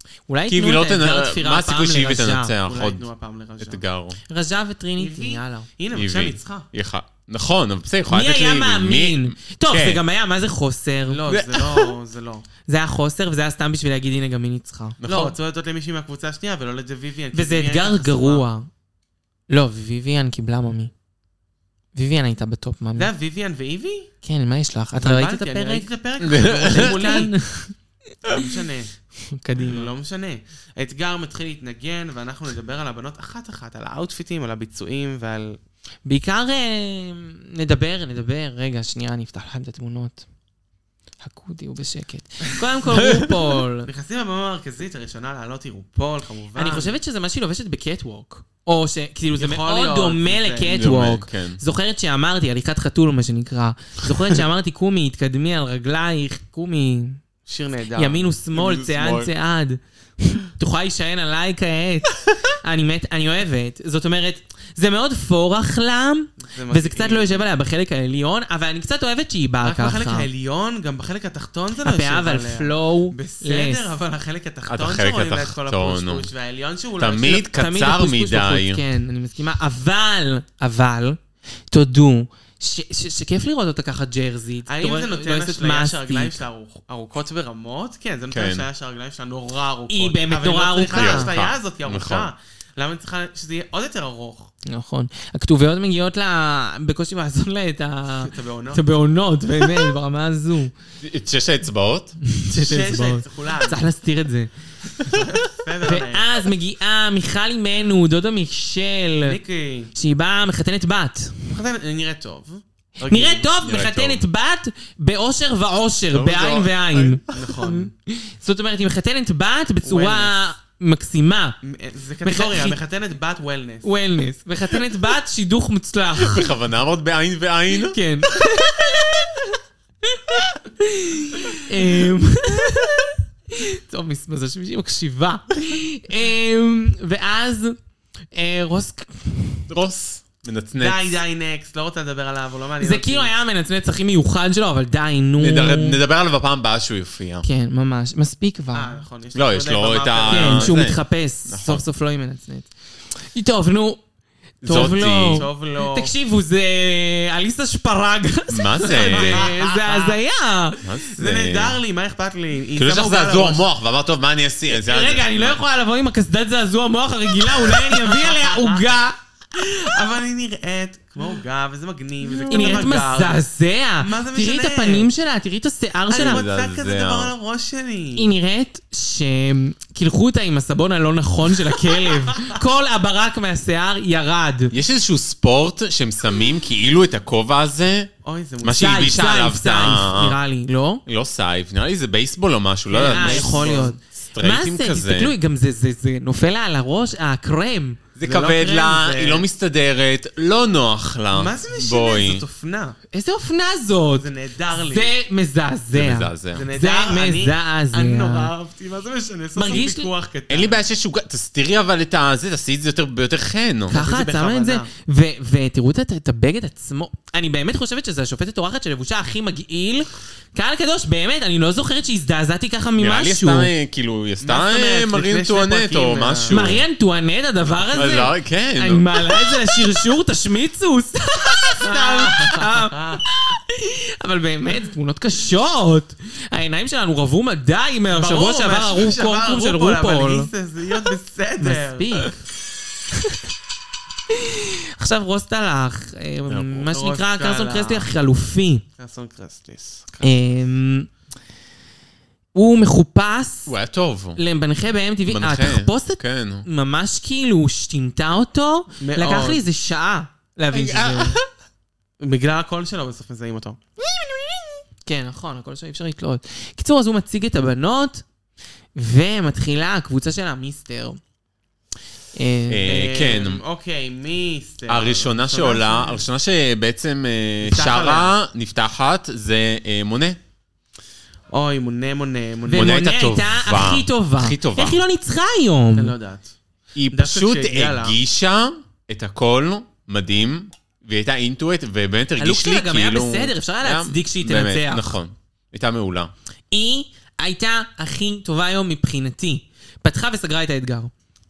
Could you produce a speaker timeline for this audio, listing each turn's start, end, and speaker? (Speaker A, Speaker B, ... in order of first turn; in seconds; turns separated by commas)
Speaker A: 0.3-2.5, Speaker B: 0.5-3.1, Speaker C: 2.6-3.8, Speaker B: 3.6-4.2, Speaker A: 4.3-5.7, Speaker C: 5.0-6.7, Speaker B: 5.9-10.0, Speaker A: 8.1-11.2, Speaker C: 11.1-12.4, Speaker B: 11.3-11.9, Speaker A: 12.7-15.0, Speaker B: 15.0-15.3, Speaker C: 15.0-18.4, Speaker A: 17.3-18.7, Speaker A: 19.5-20.9, Speaker A: 21.9-23.1, Speaker C: 23.0-24.1, Speaker A: 24.2-25.9, Speaker C: 25.0-27.3, Speaker B: 26.2-27.2, Speaker A: 26.7-27.7, Speaker C: 28.2-28.9, Speaker A: 29.2-29.9, Speaker C: 29.6-35.6, Speaker A: 36.0-40.2, Speaker A: 41.2-43.9, Speaker B: 42.9-43.3, Speaker C: 43.9-46.9, Speaker A: 46.5-57.2, Speaker C: 49.4-50.8, Speaker B: 50.7-51.6, Speaker C: 57.5-58.3, Speaker A: 58.0-70.3, Speaker B: 58.5-59.3, Speaker C: 66.4-67.4, Speaker C: 69.6-77.5, Speaker A: 71.8-73.9, Speaker B: 74.7-76.3, Speaker B: 77.0-78.8, Speaker A: 77.4-81.2, Speaker A: 81.7-86.4, Speaker C: 84.7-94.5, Speaker B: 88.3-88.7, Speaker A: 89.9-91.3, Speaker B: 90.9-92.3, Speaker A: 94.7-100.7, Speaker C: 98.2-98.8, Speaker B: 101.0-102.2, Speaker A: 102.2-104.5, Speaker C: 102.5-103.8, Speaker C: 105.0-106.4, Speaker A: 105.8-109.4, Speaker C: 109.2-109.9, Speaker A: 109.9-111.5, Speaker C: 111.5-113.5, Speaker A: 113.0-121.6, Speaker B: 113.6-114.2, Speaker B: 116.1-117.5, Speaker C: 117.3-117.9, Speaker C: 119.8-120.3, Speaker C: 121.6-123.9, Speaker A: 122.2-122.8, Speaker A: 123.8-126.5, Speaker B: 126.2-128.0, Speaker A: 127.8-137.8, Speaker A: 138.3-139.7, Speaker B: 139.7-141.2, Speaker C: 140.8-143.3, Speaker A: 142.8-146.0, Speaker B: 145.4-147.4, Speaker A: 147.4-149.0, Speaker C: 148.7-150.8, Speaker B: 149.3-151.8, Speaker A: 150.3-152.7, Speaker A: 153.2-154.0, Speaker B: 154.6-155.4, Speaker A: 154.6-160.8, Speaker C: 155.3-156.1, Speaker B: 158.5-159.5, Speaker C: 158.8-160.2, Speaker B: 160.8-161.8, Speaker C: 161.1-163.7, Speaker B: 162.8-165.6, Speaker A: 164.7-169.2, Speaker C: 167.5-168.9, Speaker C: 169.5-173.4, Speaker A: 172.5-176.4, Speaker C: 174.0-175.1, Speaker C: 176.1-178.3, Speaker B: 176.1-177.3, Speaker A: 178.2-184.7, Speaker C: 182.1-182.5, Speaker B: 184.7-188.1, Speaker C: 188.2-189.1, Speaker B: 188.6-190.4, Speaker A: 188.7-191.0, Speaker B: 191.1-195.3, Speaker C: 192.9-193.9, Speaker A: 193.0-198.0, Speaker B: 198.2-202.4, Speaker C: 198.2-199.4, Speaker C: 201.3-203.0, Speaker A: 203.1-208.5, Speaker C: 204.2-205.1, Speaker B: 205.9-206.7, Speaker C: 206.5-210.8, Speaker A: 209.5-210.1, Speaker B: 210.5-214.0, Speaker A: 213.9-223.7, Speaker C: 213.9-214.9, Speaker B: 223.0-226.8, Speaker C: 224.4-226.6, Speaker A: 226.5-240.5, Speaker B: 227.9-229.5, Speaker C: 231.8-233.2, Speaker C: 238.1-242.3, Speaker A: 241.6-242.3, Speaker A: 244.3-248.8, Speaker B: 246.5-246.8, Speaker C: 246.9-248.1, Speaker C: 249.0-250.3, Speaker A: 250.2-251.1, Speaker A: 252.5-253.7, Speaker B: 253.7-254.4, Speaker A: 254.3-261.4, Speaker B: 255.3-256.6, Speaker C: 259.0-259.6, Speaker B: 260.7-261.4, Speaker C: 262.2-263.8, Speaker A: 265.1-268.2, Speaker A: 268.9-271.2, Speaker A: 272.3-273.0, Speaker B: 272.7-273.6, Speaker C: 272.9-276.2, Speaker B: 274.9-280.4, Speaker C: 277.6-278.4, Speaker C: 281.5-282.9, Speaker A: 282.7-286.1, Speaker B: 282.7-285.0, Speaker C: 285.9-286.5, Speaker B: 286.9-296.3, Speaker C: 287.1-288.2, Speaker A: 292.4-295.1, Speaker A: 296.7-301.1